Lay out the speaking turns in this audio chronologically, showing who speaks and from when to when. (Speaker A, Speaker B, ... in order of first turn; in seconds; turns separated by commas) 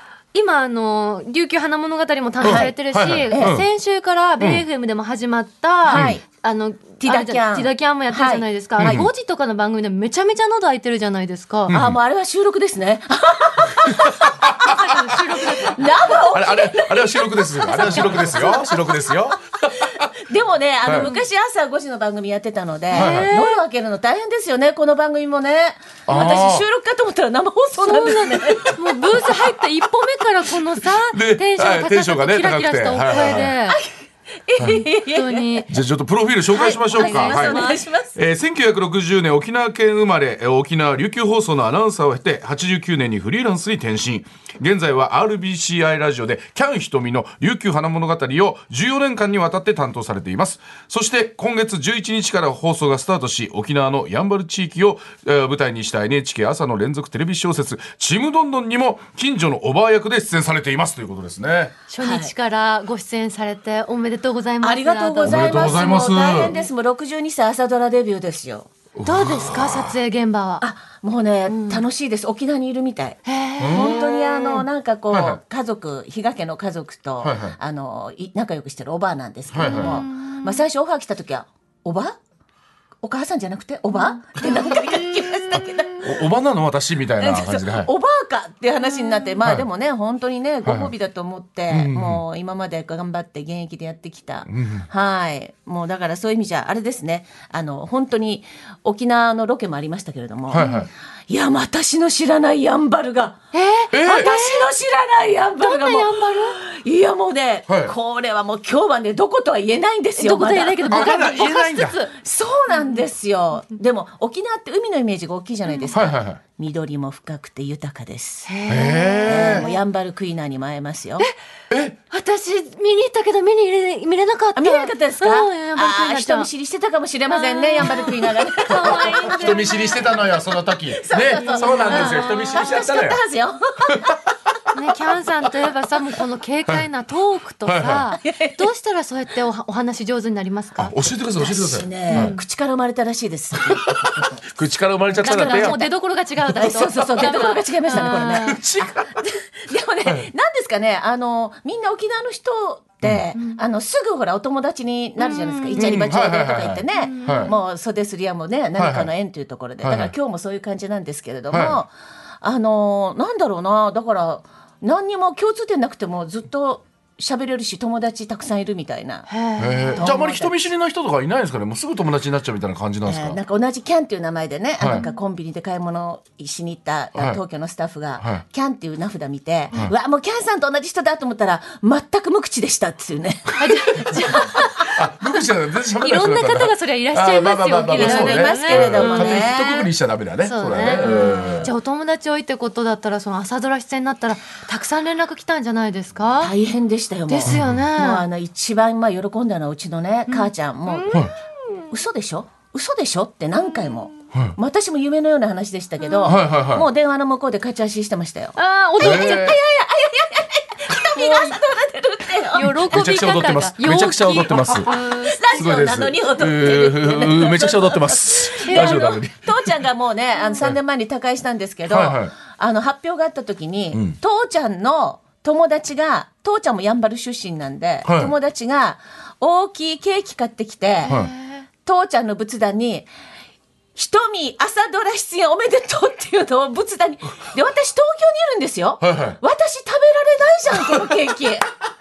Speaker A: 0.3-11.7, Speaker B: 2.4-3.7, Speaker C: 2.4-2.7, Speaker C: 3.3-3.6, Speaker B: 4.4-4.7, Speaker C: 5.9-6.2, Speaker C: 7.0-9.1, Speaker B: 8.8-9.1, Speaker B: 11.7-12.0, Speaker C: 11.7-18.9, Speaker B: 13.8-14.9, Speaker A: 14.7-16.1, Speaker B: 16.2-20.1, Speaker A: 17.6-18.8, Speaker C: 19.8-28.8, Speaker B: 20.8-21.1, Speaker A: 21.0-21.2, Speaker A: 22.9-23.6, Speaker B: 22.9-23.4, Speaker B: 26.1-26.6, Speaker A: 27.8-33.8, Speaker B: 30.8-33.5, Speaker C: 34.5-35.7, Speaker B: 34.6-34.8, Speaker A: 35.0-35.7, Speaker B: 35.7-61.7, Speaker C: 36.5-38.1, Speaker A: 36.8-37.8, Speaker A: 61.9-66.6, Speaker C: 62.0-62.3, Speaker C: 64.6-68.7, Speaker B: 65.2-66.5, Speaker B: 69.0-70.0, Speaker A: 69.0-70.6, Speaker C: 70.6-82.2, Speaker A: 71.5-71.8, Speaker A: 73.2-74.7, Speaker B: 73.6-74.1, Speaker B: 75.1-75.4, Speaker B: 77.2-77.6, Speaker B: 79.5-80.0, Speaker A: 79.6-80.6, Speaker C: 83.0-86.2, Speaker A: 83.9-85.6, Speaker B: 85.5-87.9, Speaker C: 87.2-100.7, Speaker A: 88.8-89.3, Speaker B: 89.4-89.7, Speaker B: 90.6-90.9, Speaker B: 91.7-92.2, Speaker B: 94.5-94.8, Speaker B: 100.5-100.9, Speaker A: 100.5-100.8, Speaker C: 101.3-103.4, Speaker A: 103.5-104.7, Speaker B: 103.9-104.3, Speaker C: 103.9-111.1, Speaker A: 105.6-106.6, Speaker B: 107.7-107.9, Speaker A: 110.2-112.1, Speaker B: 110.9-112.0, Speaker C: 112.2-118.5, Speaker A: 112.7-113.0, Speaker B: 115.9-116.4, Speaker A: 118.5-119.8, Speaker B: 118.7-119.7, Speaker C: 119.2-121.3, Speaker B: 121.7-122.0, Speaker A: 122.1-126.5, Speaker C: 124.5-129.7, Speaker A: 127.3-130.2, Speaker B: 128.7-133.2, Speaker C: 130.9-134.1, Speaker A: 131.3-132.8, Speaker B: 133.9-134.2, Speaker A: 134.7-140.9, Speaker B: 137.6-138.1, Speaker C: 138.2-138.7, Speaker B: 140.8-142.3, Speaker C: 141.3-144.3, Speaker A: 142.1-142.4, Speaker B: 143.5-145.8, Speaker C: 145.2-145.9, Speaker A: 145.2-148.6, Speaker B: 146.4-146.8, Speaker C: 146.5-169.3, Speaker B: 147.9-149.2, Speaker A: 153.3-153.6, Speaker A: 155.2-156.0, Speaker B: 155.8-157.5, Speaker A: 156.9-157.6, Speaker B: 158.8-159.1, Speaker B: 159.8-160.1, Speaker B: 161.5-161.8, Speaker A: 169.3-170.0, Speaker B: 169.6-173.4, Speaker C: 169.9-170.6, Speaker C: 173.1-184.7, Speaker A: 174.9-175.2, Speaker A: 183.6-185.1, Speaker B: 184.8-191.7, Speaker A: 186.0-189.7, Speaker C: 187.9-189.9, Speaker A: 190.4-196.5, Speaker C: 191.0-191.6, Speaker C: 196.4-201.3, Speaker A: 197.3-198.2, Speaker B: 197.5-197.8, Speaker A: 200.3-201.9, Speaker C: 201.9-212.8, Speaker A: 206.0-206.3, Speaker B: 206.2-206.9, Speaker A: 208.6-209.6, Speaker B: 209.0-209.6, Speaker A: 211.1-211.6, Speaker A: 212.5-215.4, Speaker B: 212.8-214.9, Speaker C: 214.7-231.1, Speaker B: 215.5-219.8, Speaker A: 218.7-219.2, Speaker B: 221.9-222.3, Speaker B: 228.0-228.3, Speaker A: 231.0-231.7, Speaker B: 231.1-231.3, Speaker C: 231.8-233.1, Speaker C: 233.9-241.7, Speaker B: 239.0-239.4